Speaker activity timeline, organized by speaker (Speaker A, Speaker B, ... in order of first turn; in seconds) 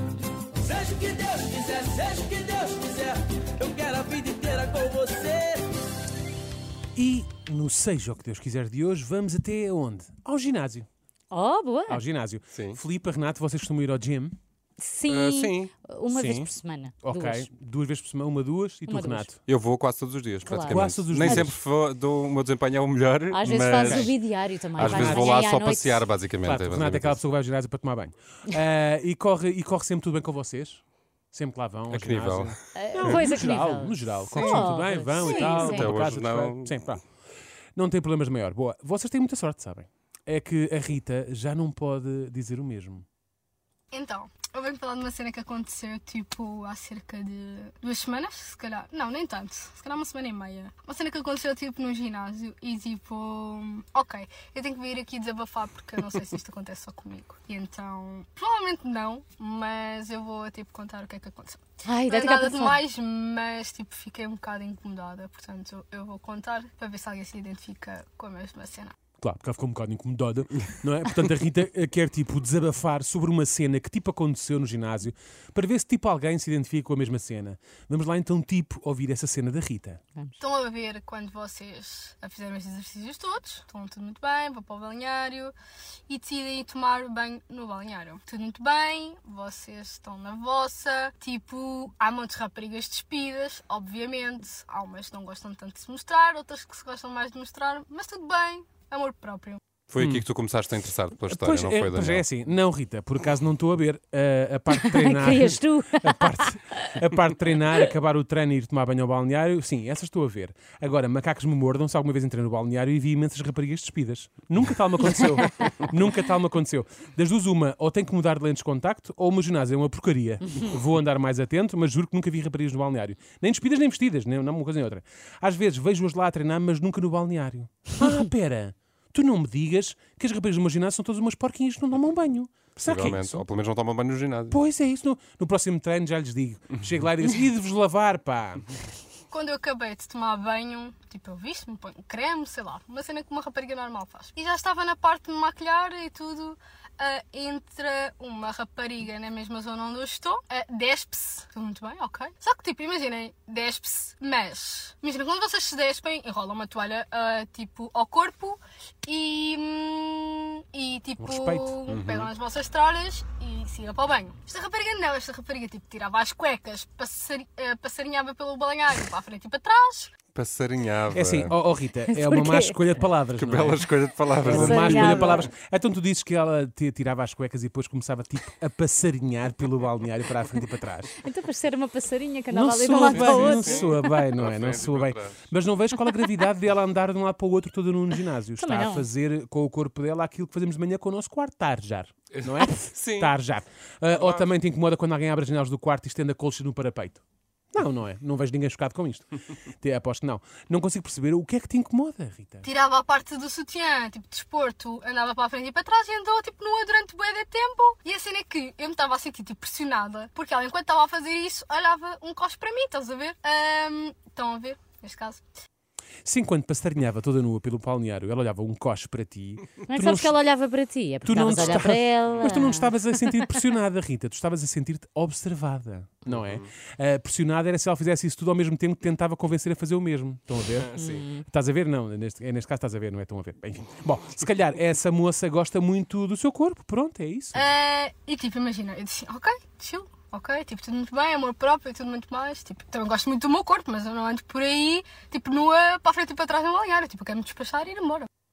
Speaker A: 0.7-5.6
Speaker B: 7.0-10.9, 11.9-14.3, 16.1-16.5, 17.0-19.4, 20.7-21.6, 23.7-24.1, 24.8-25.5, 26.4-37.1, 37.8-43.0, 69.2-80.0, 100.0-100.3, 101.3-133.5, 134.5-138.7, 161.2-161.8, 171.1-181.2, 182.5-197.2, 197.7-202.7, 216.2-220.3, 221.2-237.7
Speaker C: 11.3-12.0, 14.8-17.5, 18.9-19.3, 20.5-21.5, 23.3-26.1, 32.8-35.9, 61.9-62.8, 104.7-106.6, 115.1-115.4, 172.1-172.8, 174.4-175.5, 181.2-184.3, 188.6-189.1, 219.9-223.5, 230.9-231.4
Speaker D: 12.5-12.8, 15.1-15.7, 19.5-24.1, 24.8-27.2, 31.9-33.4, 34.3-34.7, 35.6-36.9, 99.9-102.2, 132.8-134.6, 161.9-162.3, 170.2-171.6, 173.4-175.4, 182.9-185.5, 192.4-193.3, 194.2-194.5, 226.3-226.6, 230.8-231.3
Speaker E: 35.2-35.7, 43.9-69.0, 80.4-85.5, 86.1-99.6, 139.3-170.2, 202.6-215.4, 237.5-248.3